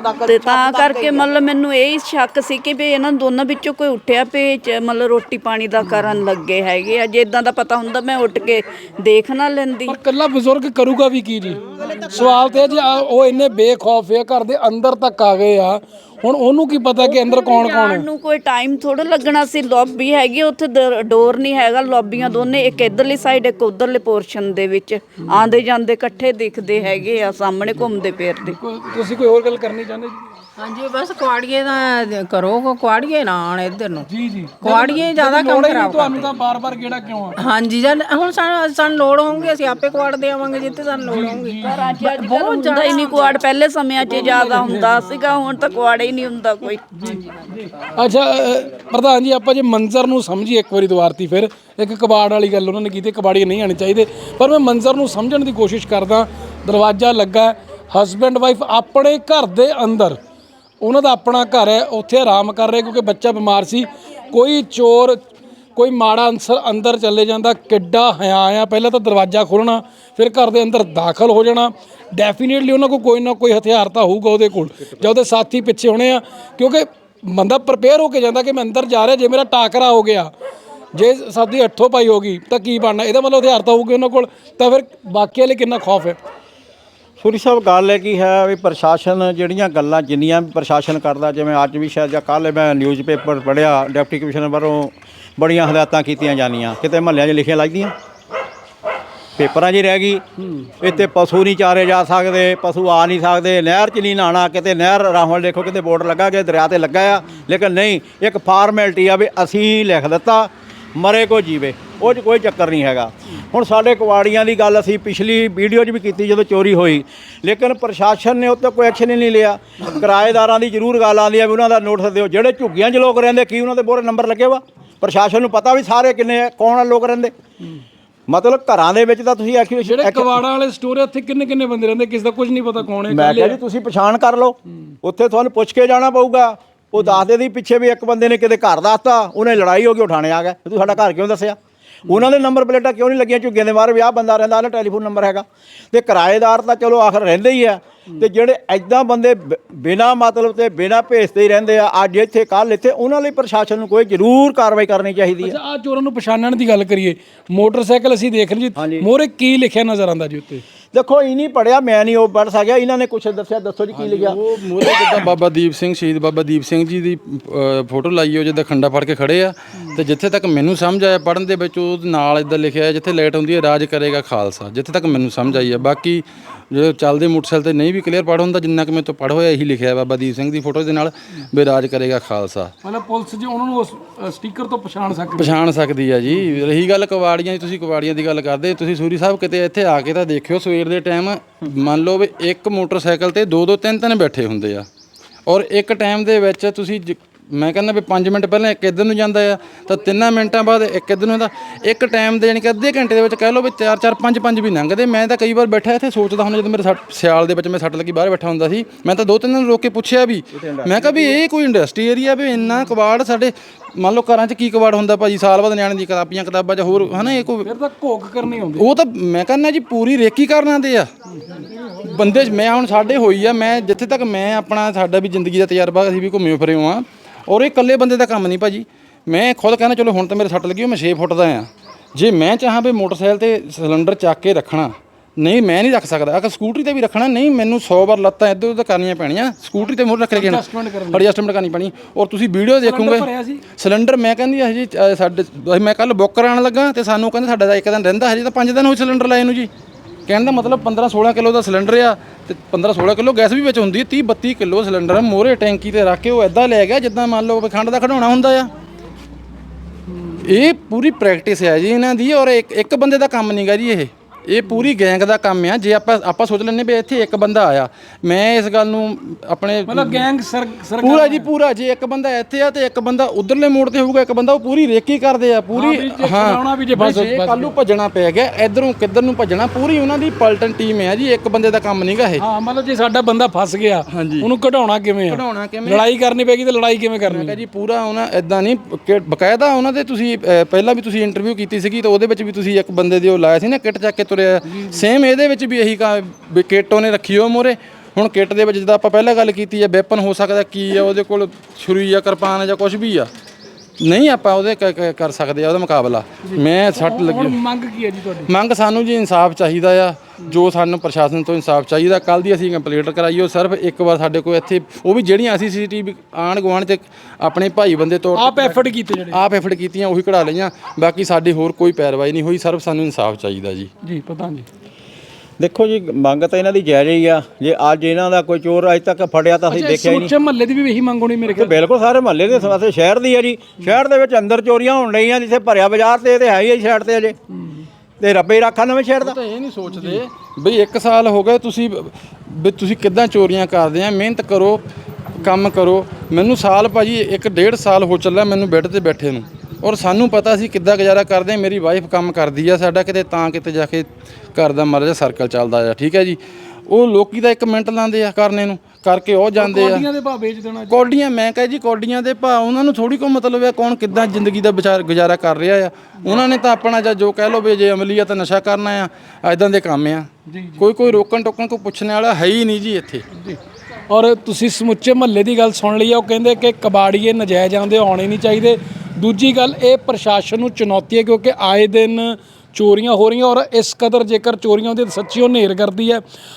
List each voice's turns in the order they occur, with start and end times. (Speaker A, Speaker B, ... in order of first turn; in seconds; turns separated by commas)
Speaker A: 0.1-10.0, Speaker B: 5.8-6.1, Speaker B: 9.9-18.1, Speaker A: 17.0-28.6, Speaker B: 28.4-30.2, Speaker C: 30.6-34.1, Speaker B: 34.1-37.4, Speaker C: 34.6-36.3, Speaker C: 37.4-43.4, Speaker B: 41.1-42.1, Speaker A: 41.6-46.9, Speaker B: 44.0-45.0, Speaker B: 47.0-60.2, Speaker B: 60.8-65.2, Speaker B: 65.8-80.3, Speaker B: 80.9-86.2, Speaker D: 87.2-97.9, Speaker D: 99.4-100.2, Speaker B: 100.5-100.8, Speaker D: 100.8-127.3, Speaker D: 128.3-130.4, Speaker B: 129.8-133.6, Speaker D: 133.1-155.6, Speaker B: 155.4-160.6, Speaker D: 158.8-159.1, Speaker D: 160.9-164.4, Speaker E: 163.9-182.7, Speaker B: 182.8-185.6, Speaker E: 185.4-194.8, Speaker E: 195.5-217.7, Speaker D: 210.5-211.3, Speaker B: 217.6-218.9, Speaker E: 218.8-221.1, Speaker E: 222.0-249.7, Speaker B: 240.3-241.2, Speaker B: 242.8-243.6, Speaker E: 250.3-258.7, Speaker E: 260.4-270.3, Speaker B: 269.9-271.5, Speaker E: 271.0-282.4, Speaker B: 275.7-277.7, Speaker B: 282.4-287.6, Speaker E: 284.1-284.5, Speaker E: 285.3-286.1, Speaker E: 287.2-303.3, Speaker B: 294.7-295.0, Speaker E: 304.0-307.6, Speaker B: 306.4-308.5, Speaker E: 308.5-323.9, Speaker B: 318.4-319.4, Speaker B: 324.0-324.7, Speaker D: 325.6-330.3, Speaker B: 329.7-331.8, Speaker D: 331.5-337.4, Speaker B: 337.6-337.9, Speaker D: 338.2-339.4, Speaker E: 339.2-344.8, Speaker B: 339.9-340.2, Speaker E: 345.4-360.1, Speaker B: 359.6-360.9, Speaker E: 360.9-373.2, Speaker B: 370.5-370.9, Speaker B: 374.1-386.2